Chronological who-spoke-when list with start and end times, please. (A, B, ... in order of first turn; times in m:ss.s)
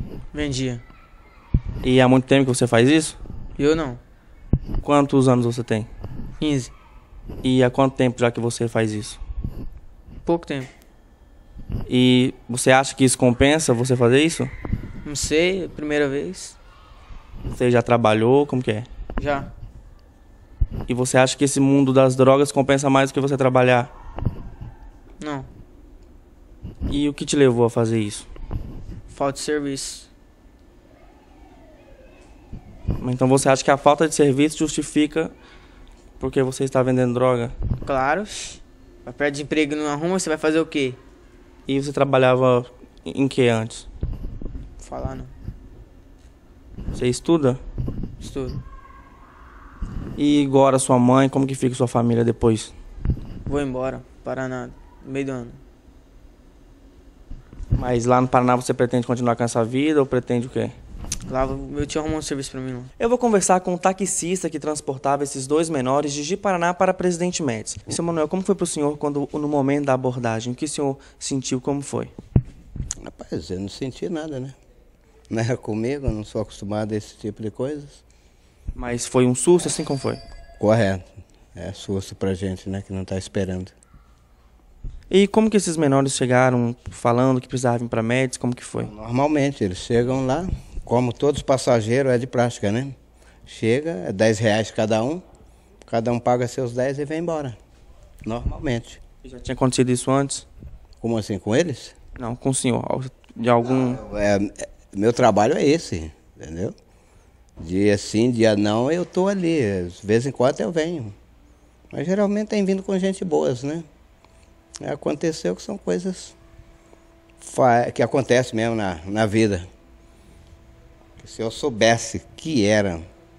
0:00.3-0:00.8 A
0:01.8-0:03.2 B
0:03.6-0:04.0 A
0:04.8-0:05.9 B
0:06.4-0:06.7 A
0:07.4-0:09.2 B
0:10.3-0:10.7 A
0:11.9-0:14.5 B
0:15.0-0:16.6 A
0:17.5-0:18.9 B
0:19.2-0:19.5 A
0:20.9-0:23.9 B
0:25.2-0:25.5 A
0:26.9-0:28.3 B
0:29.1-0:30.1 A
0:33.0-0:35.3 B
0:36.2-0:37.6 B
0:37.8-0:41.0 A
0:41.7-0:43.9 B
0:44.8-0:45.3 A
0:46.9-0:47.6 B
0:48.2-0:48.6 A
0:50.2-0:52.7 B
0:53.5-0:55.6 A
0:57.8-1:00.8 B
1:01.3-1:02.9 A
1:03.0-1:12.1 B
1:13.0-1:14.6 C
1:15.3-1:18.0 C
1:18.8-1:20.2 B
1:20.6-1:23.7 C
1:25.1-1:28.9 B
1:28.9-1:33.0 C
1:33.5-1:35.2 C
1:35.8-1:37.6 C
1:38.2-1:39.0 C
1:39.2-1:40.5 B
1:41.0-1:42.0 C
1:42.2-1:44.0 B
1:43.7-1:46.7 C
1:47.6-1:51.2 C
1:51.9-1:53.9 C
1:54.8-1:56.4 C
1:57.4-1:59.7 C
2:01.2-2:03.0 C